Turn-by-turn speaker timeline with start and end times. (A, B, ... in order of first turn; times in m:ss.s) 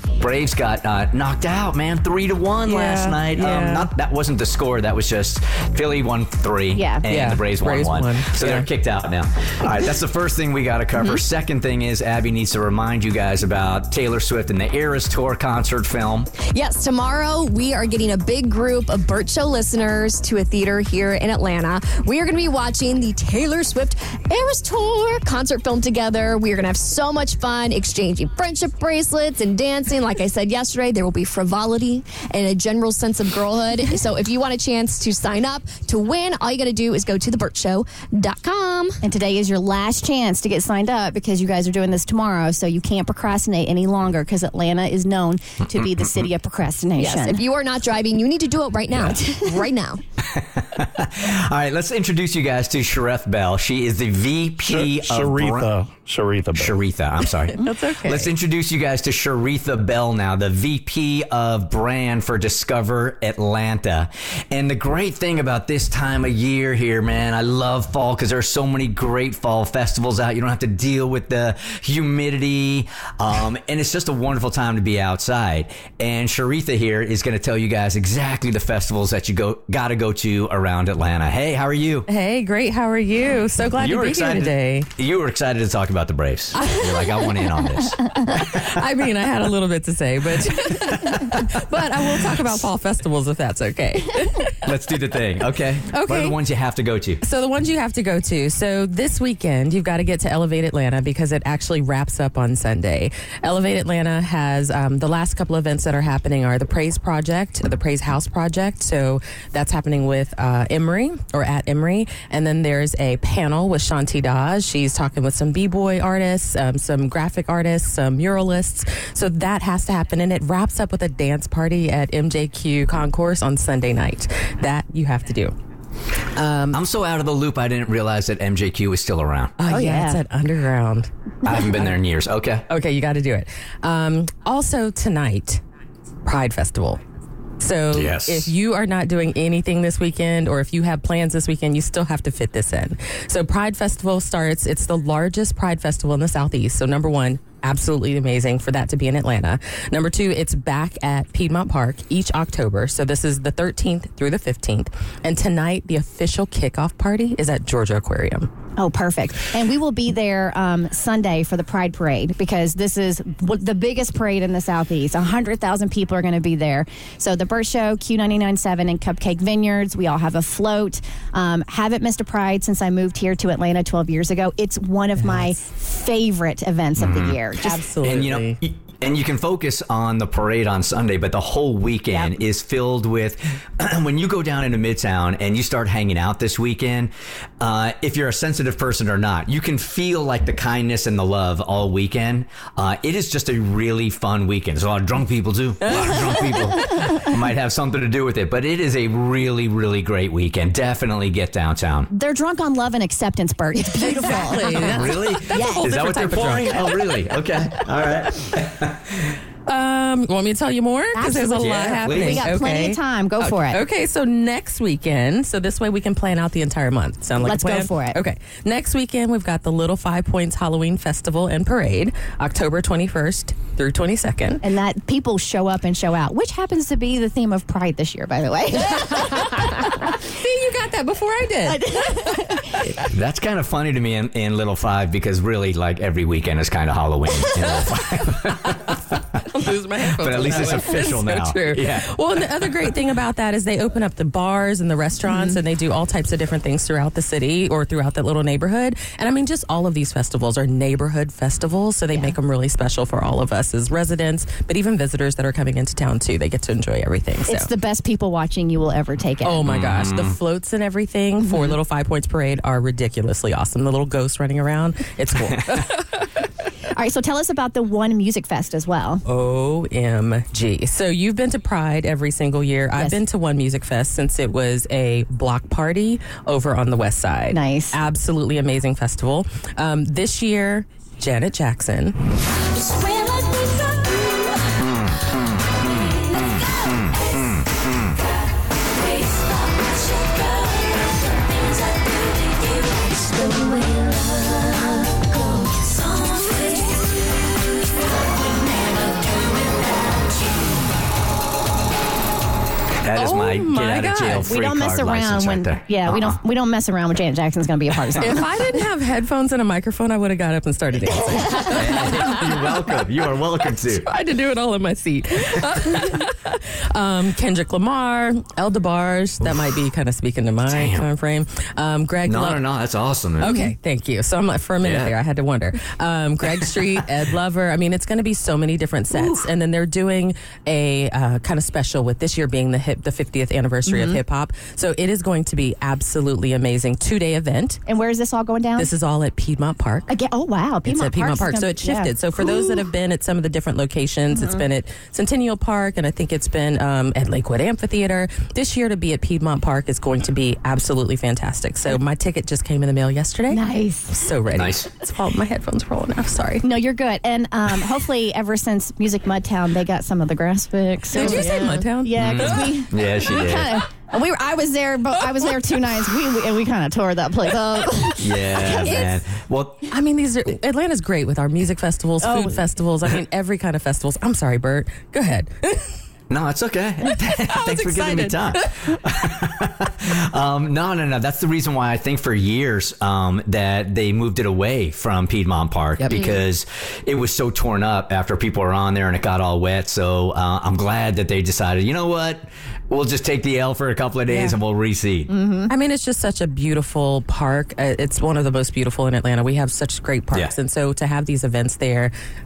0:00.2-0:16.3 A
0:02.7-0:03.9 B
0:06.8-0:07.0 C
0:07.1-0:08.7 B
0:16.5-0:39.0 D
0:39.0-0:47.4 C
0:47.0-0:50.0 D
0:50.3-0:55.8 A
0:54.7-0:56.8 E
0:56.6-1:22.1 A
0:57.5-0:58.3 B
1:22.1-1:24.9 B
1:23.8-1:28.6 A
1:26.6-1:27.5 B
1:28.2-1:34.7 B
1:34.6-1:37.2 A
1:35.9-1:36.4 B
1:37.2-2:05.6 B
2:06.4-2:06.8 B
2:06.7-2:09.5 A
2:09.6-2:11.1 B
2:09.6-2:10.2 C
2:11.4-2:12.7 A
2:12.7-2:15.6 B
2:16.2-2:17.0 B
2:17.6-2:38.5 B
2:17.9-2:18.5 A
2:38.8-2:57.8 C
2:55.2-2:55.5 B
2:57.0-2:57.4 A
2:57.6-2:58.6 B
2:58.0-3:22.1 A
3:15.9-3:16.5 B
3:22.1-3:25.2 C
3:24.0-3:27.1 B
3:24.9-3:29.0 A
3:29.7-3:44.6 B
3:31.1-3:33.8 C
3:31.6-3:32.5 A
3:37.4-3:38.2 C
3:44.6-3:49.7 C
3:49.1-3:52.9 B
3:51.7-3:52.7 C
3:53.0-3:59.0 A
3:58.3-4:17.7 B
4:00.2-4:02.8 A
4:05.3-4:05.6 C
4:17.5-4:19.6 C
4:19.4-4:26.3 B
4:19.6-4:20.4 A
4:21.4-4:21.8 C
4:26.9-4:29.2 C
4:29.3-4:42.2 B
4:37.5-4:38.0 C
4:44.8-4:48.2 A
4:53.2-4:54.1 D
5:03.0-5:06.4 A
5:03.2-5:04.5 B
5:04.5-5:08.5 C
5:08.2-5:12.7 B
5:11.7-5:14.1 A
5:13.9-5:22.6 B
5:20.7-5:21.1 A
5:22.2-5:23.6 A
5:23.4-5:37.8 B
5:24.8-5:25.1 A
5:33.9-5:34.2 C
5:37.9-5:38.9 C
5:38.8-5:40.1 B
5:40.1-5:42.8 C
5:40.8-5:56.7 B
5:44.3-5:44.6 C
5:53.5-5:54.2 C
5:54.5-5:54.9 A
5:56.6-6:09.0 C
6:01.1-6:02.8 B
6:01.2-6:01.7 D
6:02.2-6:03.8 A
6:08.2-6:09.9 A
6:08.6-6:09.2 B
6:09.9-6:16.0 B
6:12.2-6:12.6 C
6:16.3-6:35.3 A
6:17.0-6:19.0 B
6:26.0-6:26.3 B
6:34.3-6:34.6 B
6:35.3-6:35.7 C
6:35.7-6:42.1 B